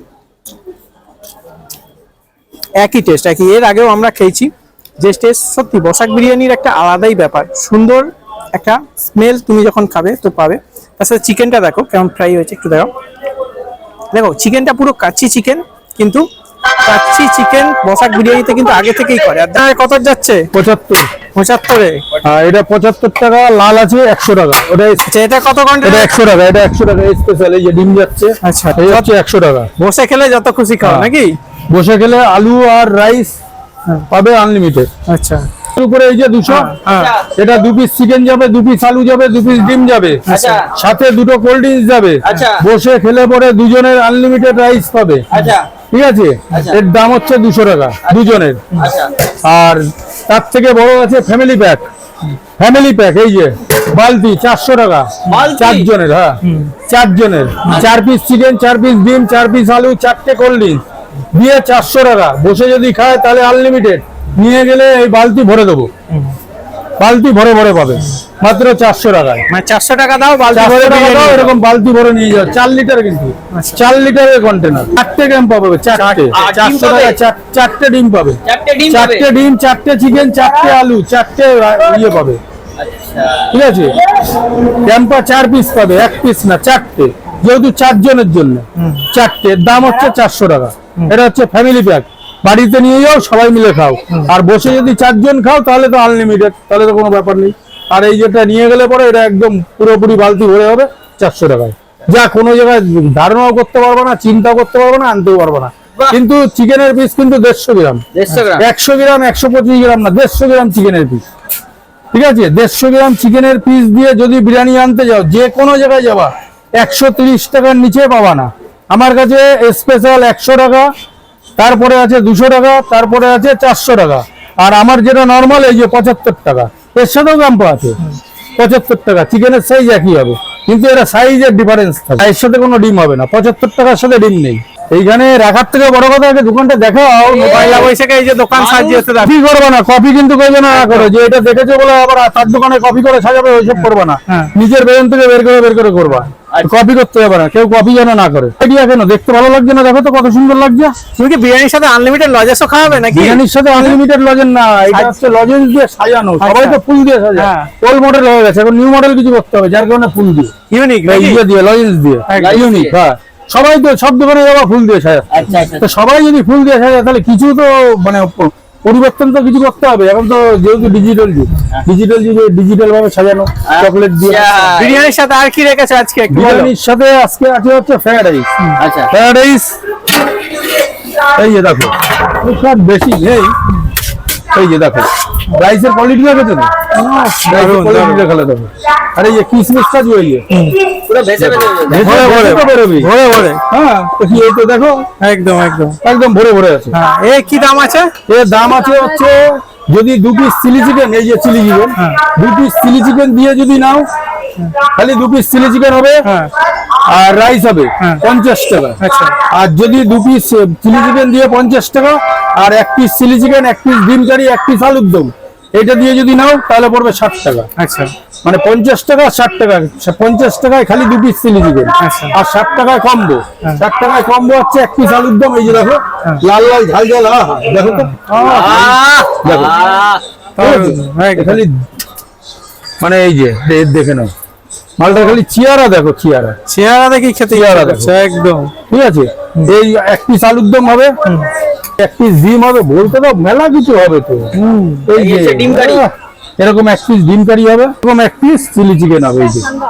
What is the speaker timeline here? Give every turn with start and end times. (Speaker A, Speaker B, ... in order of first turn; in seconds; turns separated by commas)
Speaker A: 2.8-12.9, Speaker A: 14.1-16.2, Speaker A: 16.8-20.4, Speaker B: 20.5-21.1, Speaker A: 21.3-22.1, Speaker B: 22.2-25.0, Speaker A: 25.1-26.1, Speaker B: 25.8-29.7, Speaker A: 28.4-29.1, Speaker A: 29.8-31.3, Speaker B: 30.8-31.1, Speaker B: 31.7-33.4, Speaker B: 34.1-34.9, Speaker A: 35.1-35.5, Speaker B: 35.7-36.7, Speaker A: 36.5-37.1, Speaker C: 36.9-37.3, Speaker B: 37.3-45.2, Speaker A: 40.3-40.6, Speaker C: 40.3-40.7, Speaker C: 42.2-42.6, Speaker C: 45.3-45.6, Speaker B: 45.9-48.7, Speaker C: 46.5-46.8, Speaker C: 48.0-49.1, Speaker B: 49.4-51.9, Speaker B: 52.6-60.8, Speaker C: 55.3-55.9, Speaker A: 56.4-56.7, Speaker B: 61.3-65.9, Speaker B: 67.0-69.4, Speaker A: 69.5-71.5, Speaker B: 70.5-82.4, Speaker A: 73.5-73.8, Speaker A: 75.9-76.3, Speaker C: 76.3-77.2, Speaker C: 78.4-79.3, Speaker C: 82.8-83.5, Speaker B: 83.5-84.1, Speaker B: 84.7-111.2, Speaker A: 88.8-89.0, Speaker C: 108.1-108.6, Speaker B: 112.1-120.9, Speaker B: 121.6-128.0, Speaker B: 128.6-137.9, Speaker C: 137.3-137.9, Speaker A: 137.4-139.3, Speaker C: 138.5-139.1, Speaker B: 139.1-150.9, Speaker A: 140.7-141.1, Speaker A: 151.1-154.0, Speaker B: 153.1-160.5, Speaker A: 156.4-156.8, Speaker A: 157.3-157.7, Speaker A: 160.7-161.4, Speaker B: 161.0-174.6, Speaker A: 162.3-162.6, Speaker C: 162.3-162.9, Speaker C: 165.3-165.8, Speaker C: 173.7-175.0, Speaker A: 174.7-176.7, Speaker B: 176.3-178.5, Speaker C: 178.8-179.1, Speaker B: 179.1-179.7, Speaker B: 181.2-183.5, Speaker B: 184.5-186.7, Speaker A: 186.9-188.2, Speaker B: 187.4-190.4, Speaker A: 190.5-190.8, Speaker C: 191.1-192.5, Speaker B: 191.3-193.1, Speaker A: 191.9-193.6, Speaker B: 193.7-195.1, Speaker A: 195.2-196.0, Speaker B: 196.0-196.9, Speaker A: 196.9-198.1, Speaker B: 198.3-204.1, Speaker B: 204.8-206.2, Speaker A: 206.2-206.5, Speaker B: 207.1-217.7, Speaker A: 209.0-209.4, Speaker A: 217.8-218.1, Speaker B: 218.4-229.8, Speaker A: 222.0-222.3, Speaker A: 227.8-228.8, Speaker C: 228.4-230.2, Speaker A: 230.6-231.6, Speaker B: 230.6-231.8, Speaker B: 233.0-234.3, Speaker B: 235.0-236.6, Speaker A: 236.7-238.7, Speaker B: 237.5-238.1, Speaker B: 238.9-241.1, Speaker B: 242.0-244.5, Speaker A: 244.5-245.1, Speaker B: 245.0-249.7, Speaker C: 245.1-246.0